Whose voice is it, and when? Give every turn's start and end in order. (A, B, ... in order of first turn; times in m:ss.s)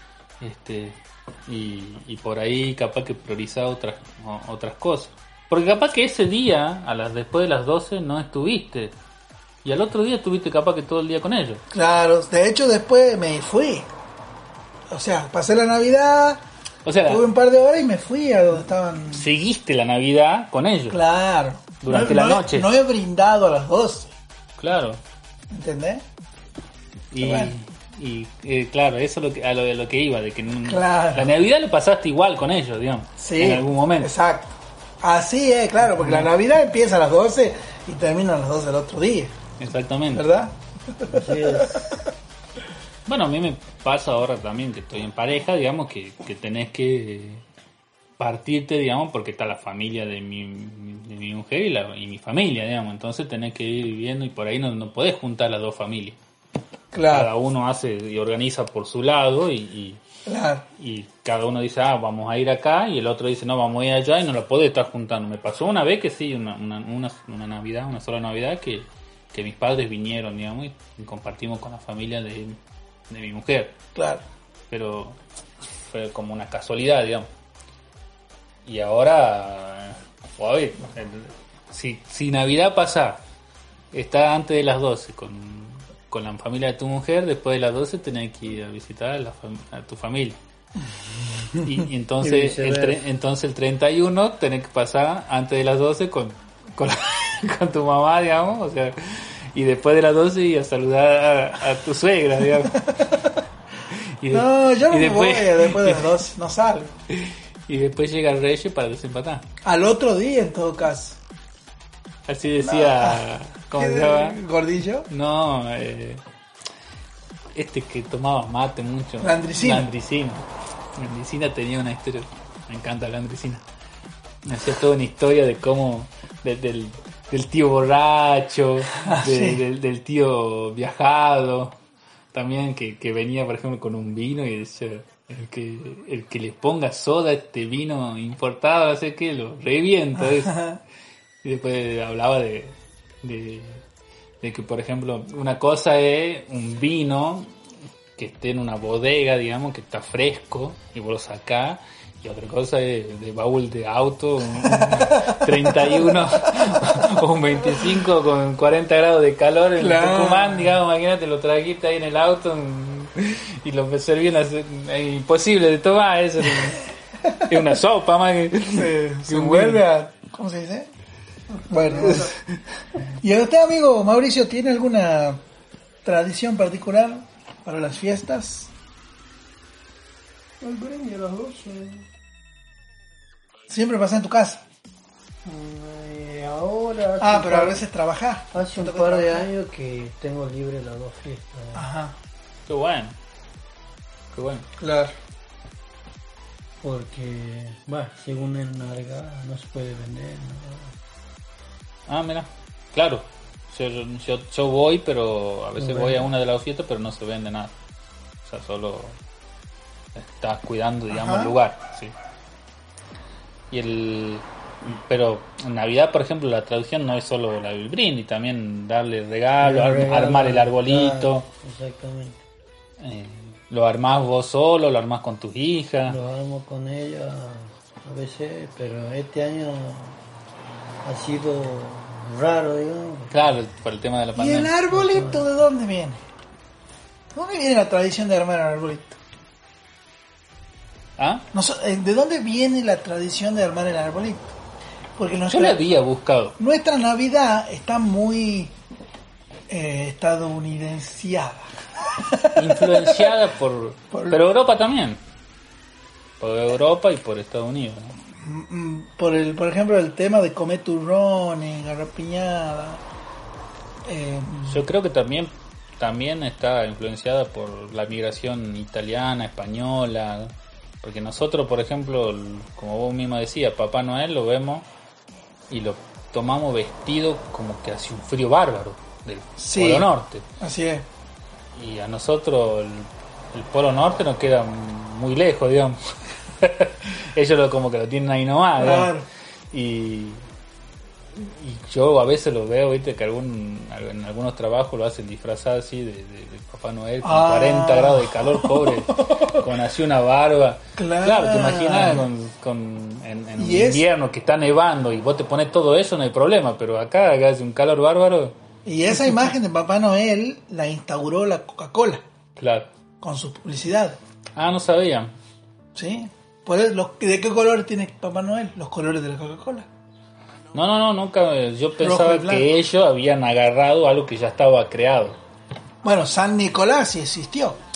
0:00.4-0:08.9 A
0:09.6-0:11.6 A
0:11.7-0:13.9 B
0:14.9-0:16.4 B
0:16.8-0:17.2 A
0:17.0-0:19.3 B
0:19.1-0:21.0 A
0:20.9-0:24.1 B
0:21.8-0:22.7 A
0:24.6-0:25.0 A
0:25.5-0:26.0 B
0:27.1-0:34.1 A
0:27.2-0:27.5 B
0:30.6-0:31.3 B
0:33.2-0:39.4 B
0:35.9-0:36.3 A
0:39.6-0:40.2 A
0:40.1-0:42.0 B
0:41.1-0:41.9 C
0:43.1-0:47.4 A
0:48.2-0:56.2 A
0:56.9-0:57.3 B
0:57.1-1:00.0 A
1:00.2-1:00.6 B
1:00.8-1:12.6 A
1:13.1-1:13.8 A
1:13.9-1:14.2 B
1:14.7-1:15.2 A
1:15.8-1:17.3 A
1:18.6-1:23.2 A
1:23.9-1:30.4 A
1:31.6-1:42.9 A
1:32.2-1:33.0 C
1:43.9-1:46.2 A
1:44.3-1:47.0 B
1:47.1-1:49.4 A
1:49.6-1:51.2 B
1:52.3-1:54.4 A
1:52.6-1:53.2 B
1:53.7-1:55.1 B
1:55.1-1:56.2 A
1:57.5-2:03.6 A
1:59.2-1:59.9 B
2:04.4-2:11.8 A
2:09.0-2:09.6 B
2:12.3-2:20.6 A
2:20.2-2:20.8 B
2:21.4-2:23.8 A
2:24.4-2:27.5 A
2:28.2-2:49.8 A
2:34.6-2:37.0 B
2:39.8-2:40.7 B
2:48.7-2:50.9 B
2:51.7-2:52.3 B
2:53.2-2:55.4 B
2:56.0-2:58.7 B
3:00.6-3:02.0 C
3:03.7-3:04.6 B
3:05.4-3:07.8 C
3:07.2-3:09.5 B
3:08.5-3:11.9 C
3:11.7-3:12.2 B
3:12.7-3:13.1 A
3:14.3-3:14.7 A
3:14.8-3:15.1 B
3:16.8-3:20.9 C
3:22.1-3:27.7 A
3:25.8-3:26.2 C
3:28.4-3:29.2 A
3:30.1-3:32.1 A
3:31.1-3:31.6 B
3:33.7-3:41.5 A
3:39.6-3:42.4 C
3:43.0-3:46.2 A
3:46.1-3:50.2 C
3:51.0-3:53.3 C
3:53.3-3:54.7 A
3:54.4-3:56.2 B
3:54.9-3:55.5 C
3:57.3-3:59.2 B
4:01.2-4:01.4 A
4:01.5-4:04.5 B
4:05.2-4:05.8 B
4:05.5-4:06.6 A
4:06.6-4:08.7 B
4:09.7-4:13.3 B
4:12.5-4:15.2 A
4:14.1-4:14.4 B
4:16.4-4:18.2 A
4:18.4-4:23.0 B
4:24.0-4:24.8 B
4:24.7-4:34.9 A
4:35.7-4:40.4 A
4:39.6-4:40.1 B
4:40.6-4:41.1 B
4:41.7-4:46.0 A
4:46.6-4:49.1 A
4:48.8-4:49.2 B
4:49.7-4:50.4 A
4:51.3-5:08.6 A
4:57.2-4:59.6 B
5:01.0-5:02.3 B
5:03.6-5:04.0 B
5:08.8-5:12.2 B
5:12.6-5:12.9 A
5:13.2-5:14.2 B
5:14.5-5:15.3 A
5:15.9-5:19.9 B
5:20.7-5:25.4 A
5:22.0-5:22.7 B
5:26.0-5:27.8 B